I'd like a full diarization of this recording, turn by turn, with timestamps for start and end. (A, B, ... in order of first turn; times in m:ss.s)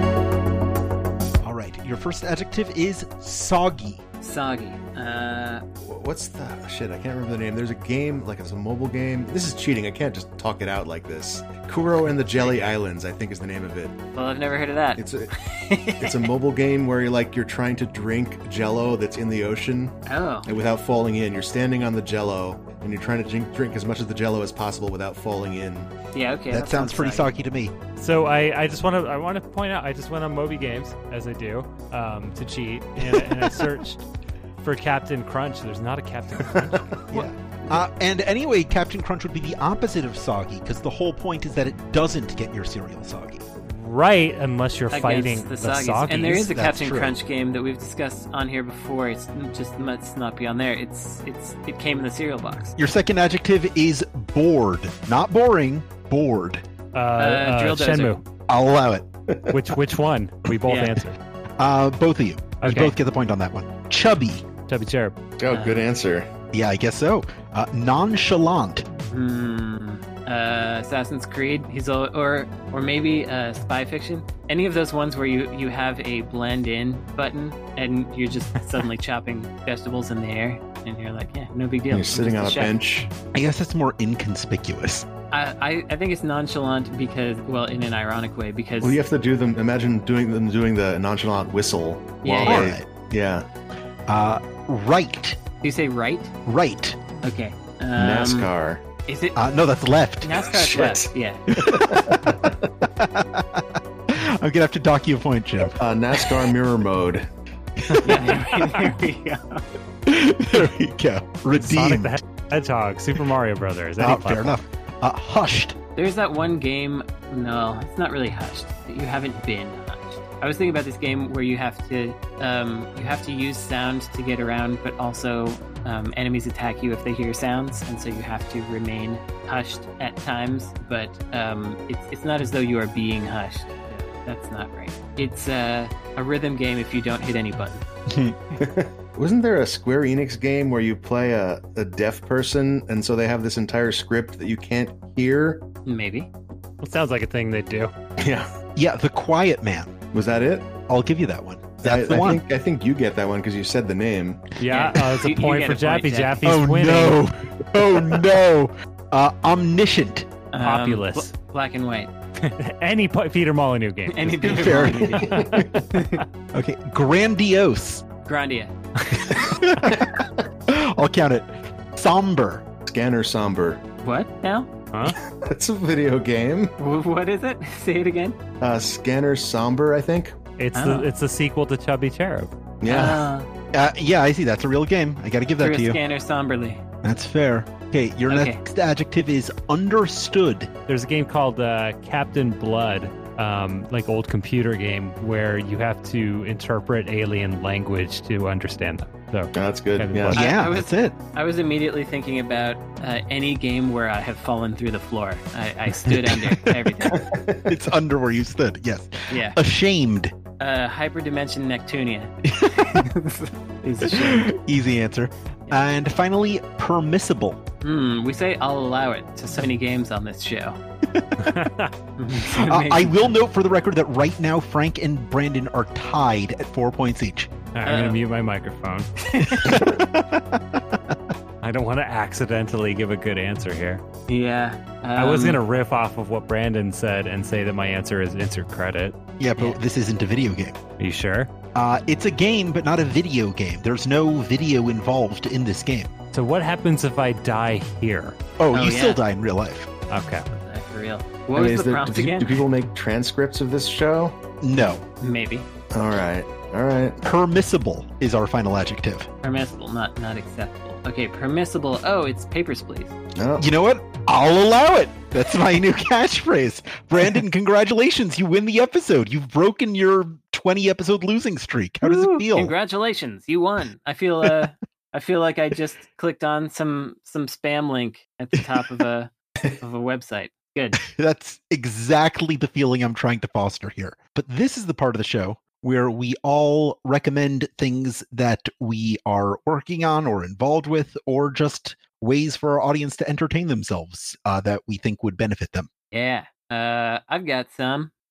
0:01.4-0:04.0 A
0:04.2-0:05.6 B
0:05.8-0:14.0 C
0:14.1-0:16.3 B
0:15.0-0:15.3 C
0:16.0-0:25.9 C
0:20.0-0:20.5 B
0:26.1-0:27.3 B
0:26.5-0:27.8 A
0:28.0-0:34.1 D
0:33.0-0:33.7 A
0:34.6-0:37.0 D
0:37.1-0:43.4 A
0:37.1-0:37.8 B
0:43.6-0:46.5 D
0:44.9-0:52.7 B
0:46.5-0:47.1 A
0:52.8-0:56.6 A
0:56.9-0:58.2 D
0:57.2-0:58.2 B
0:58.5-0:59.0 A
0:59.3-0:59.5 C
0:59.5-1:01.2 D
1:00.7-1:01.0 B
1:01.6-1:04.5 A
1:02.6-1:02.9 D
1:04.7-1:05.1 D
1:05.4-1:06.3 C
1:05.5-1:05.9 B
1:06.5-1:08.8 A
1:09.1-1:22.7 B
1:21.9-1:23.1 C
1:23.3-1:25.0 A
1:25.3-1:29.0 B
1:28.8-1:33.4 C
1:32.2-1:32.7 B
1:32.4-1:32.9 A
1:34.1-1:35.4 A
1:35.6-1:36.3 B
1:36.4-1:37.0 A
1:37.2-1:38.5 B
1:38.0-1:38.8 C
1:39.0-1:39.4 B
1:39.3-1:40.5 A
1:40.2-1:41.5 B
1:40.4-1:42.7 C
1:41.5-1:42.4 A
1:42.9-1:46.5 A
1:45.6-1:47.3 C
1:47.8-1:48.4 A
1:48.0-1:49.6 B
1:50.0-1:52.2 A
1:51.5-1:54.6 D
1:54.0-1:55.8 A
1:56.0-2:17.8 B
2:18.1-2:18.4 A
2:18.6-2:25.6 C
2:25.8-2:26.3 B
2:26.8-2:27.9 D
2:28.2-2:28.5 C
2:28.8-2:29.9 A
2:30.1-2:30.7 C
2:30.9-2:32.4 A
2:31.8-2:34.4 C
2:34.6-2:37.2 D
2:34.7-2:36.4 B
2:36.4-2:40.3 A
2:40.5-2:42.5 B
2:40.6-2:41.3 D
2:42.6-2:46.2 D
2:44.1-2:46.2 B
2:44.4-2:45.3 A
2:45.2-2:45.6 C
2:46.5-2:48.0 A
2:48.2-2:48.7 B
2:49.0-2:49.3 D
2:49.3-2:52.6 A
2:49.9-2:50.3 C
2:52.8-2:53.8 C
2:54.0-2:54.7 B
2:54.9-2:55.2 D
2:55.4-2:56.7 C
2:56.8-2:58.4 B
2:58.6-3:00.4 C
3:00.6-3:03.1 D
3:00.7-3:01.1 B
3:02.8-3:03.2 C
3:02.9-3:03.5 B
3:03.7-3:06.0 A
3:05.6-3:06.8 B
3:07.0-3:10.7 A
3:08.3-3:08.6 B
3:10.9-3:20.5 D
3:19.5-3:20.4 C
3:20.3-3:21.2 A
3:20.3-3:27.3 B
3:26.0-3:26.8 A
3:27.1-3:27.8 C
3:27.7-3:30.3 A
3:29.3-3:29.6 B
3:30.6-3:34.5 B
3:32.4-3:33.1 A
3:34.0-3:37.6 A
3:37.8-3:40.8 B
3:41.1-3:41.6 A
3:41.4-3:41.9 D
3:42.2-3:43.3 B
3:42.4-3:47.5 A
3:47.7-3:49.1 D
3:47.8-3:48.2 B
3:49.2-3:49.9 B
3:49.5-3:51.2 A
3:51.6-3:54.0 D
3:54.3-3:55.6 B
3:55.2-3:59.2 D
3:59.4-4:00.8 A
4:01.0-4:01.5 D
4:01.7-4:06.1 A
4:06.3-4:08.4 D
4:08.6-4:09.9 A
4:08.7-4:09.2 B
4:10.1-4:10.5 D
4:10.5-4:12.6 B
4:11.5-4:14.4 C
4:14.6-4:15.0 A
4:15.2-4:15.7 B
4:15.9-4:17.2 C
4:17.2-4:19.3 A
4:19.4-4:23.1 B
4:23.3-4:23.6 C
4:23.6-4:32.7 A
4:32.0-4:41.1 B
4:41.0-4:55.9 A
4:56.1-4:58.1 B